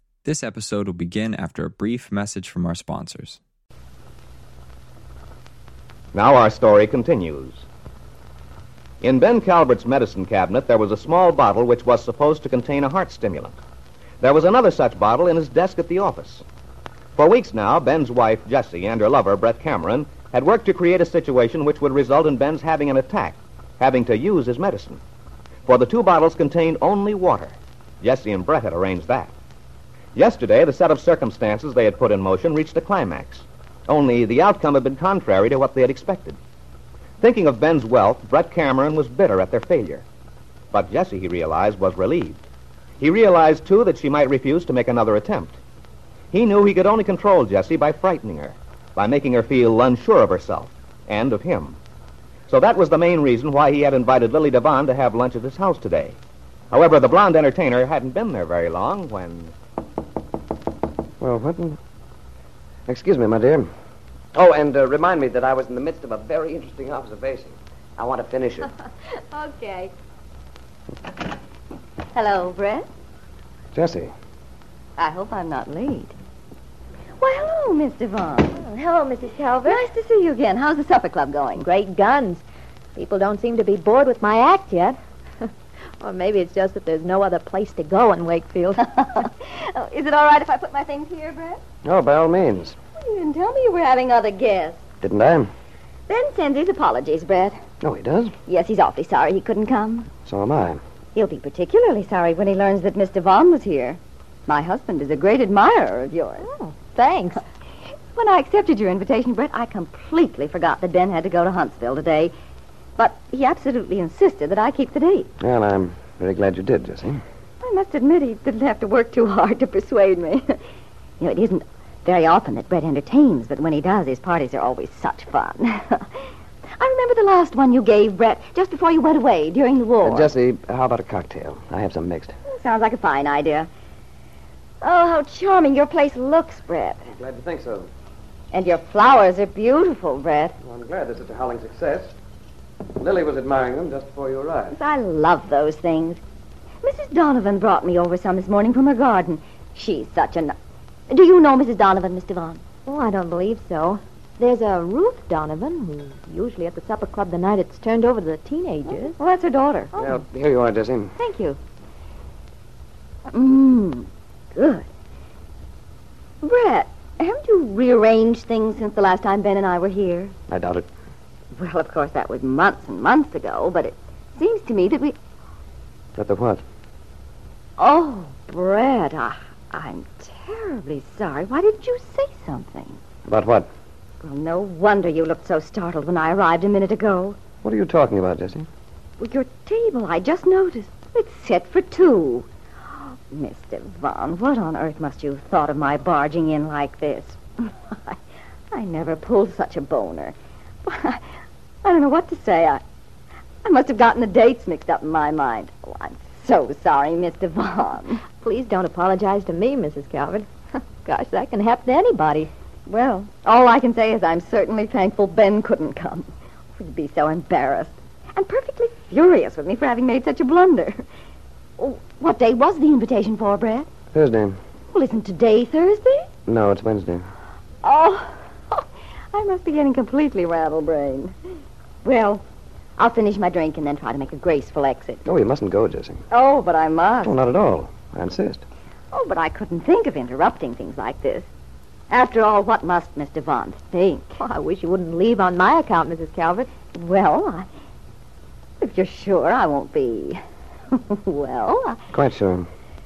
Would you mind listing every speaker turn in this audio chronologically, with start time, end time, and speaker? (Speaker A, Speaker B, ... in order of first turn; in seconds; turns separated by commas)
Speaker A: 0.2-3.4, Speaker B: 6.1-7.7, Speaker B: 9.0-13.6, Speaker B: 14.2-16.4, Speaker B: 17.1-25.0, Speaker B: 25.6-29.3, Speaker B: 30.1-36.4, Speaker B: 37.2-40.0, Speaker B: 40.7-42.4, Speaker B: 43.0-45.6, Speaker B: 46.3-51.8, Speaker B: 52.5-56.2, Speaker B: 56.7-59.5, Speaker C: 61.2-61.8, Speaker C: 62.9-63.7, Speaker C: 64.3-68.7, Speaker D: 69.3-69.9, Speaker D: 72.1-72.9, Speaker C: 73.7-74.1, Speaker D: 75.0-76.1, Speaker D: 77.2-78.7, Speaker E: 78.6-79.0, Speaker D: 79.6-81.7, Speaker E: 81.7-82.4, Speaker D: 88.8-91.6, Speaker C: 91.8-92.8, Speaker D: 93.0-94.8, Speaker C: 95.0-95.5, Speaker D: 96.1-97.6, Speaker C: 97.8-98.3, Speaker D: 98.5-100.1, Speaker C: 100.2-100.8, Speaker D: 101.1-106.5, Speaker E: 106.5-107.1, Speaker D: 108.1-112.3, Speaker D: 113.0-115.3, Speaker C: 115.4-117.2, Speaker D: 117.6-120.6, Speaker D: 121.2-130.3, Speaker C: 130.0-132.3, Speaker D: 132.4-133.7, Speaker D: 134.8-137.1, Speaker C: 137.2-137.9, Speaker D: 138.5-140.6, Speaker C: 140.6-142.1, Speaker C: 142.9-144.7, Speaker D: 144.7-146.2, Speaker D: 146.8-150.5, Speaker D: 151.1-152.6, Speaker E: 152.9-155.5, Speaker E: 156.1-156.9, Speaker E: 157.4-159.1, Speaker D: 158.8-159.9, Speaker C: 159.9-161.1, Speaker D: 161.2-161.6, Speaker D: 163.3-164.8, Speaker D: 166.4-170.3, Speaker C: 170.5-170.8, Speaker D: 171.5-175.2, Speaker C: 176.2-176.6, Speaker D: 177.8-183.0, Speaker C: 183.3-183.7, Speaker D: 184.2-187.4, Speaker C: 187.6-188.7, Speaker D: 189.2-192.5, Speaker D: 193.3-198.2, Speaker D: 198.7-200.3, Speaker D: 200.8-201.2, Speaker D: 201.8-202.8, Speaker D: 203.6-208.2, Speaker D: 212.9-221.0, Speaker D: 221.8-223.9, Speaker C: 224.1-224.6, Speaker D: 224.9-226.3, Speaker C: 226.4-227.3, Speaker D: 227.8-231.3, Speaker D: 232.0-232.4, Speaker D: 233.0-235.2, Speaker C: 235.2-236.2, Speaker D: 236.3-237.3, Speaker C: 237.2-238.6, Speaker D: 239.1-241.5, Speaker D: 242.1-244.4, Speaker E: 245.5-246.7, Speaker D: 246.9-247.7, Speaker D: 248.8-250.4, Speaker D: 250.9-252.0, Speaker C: 252.1-252.7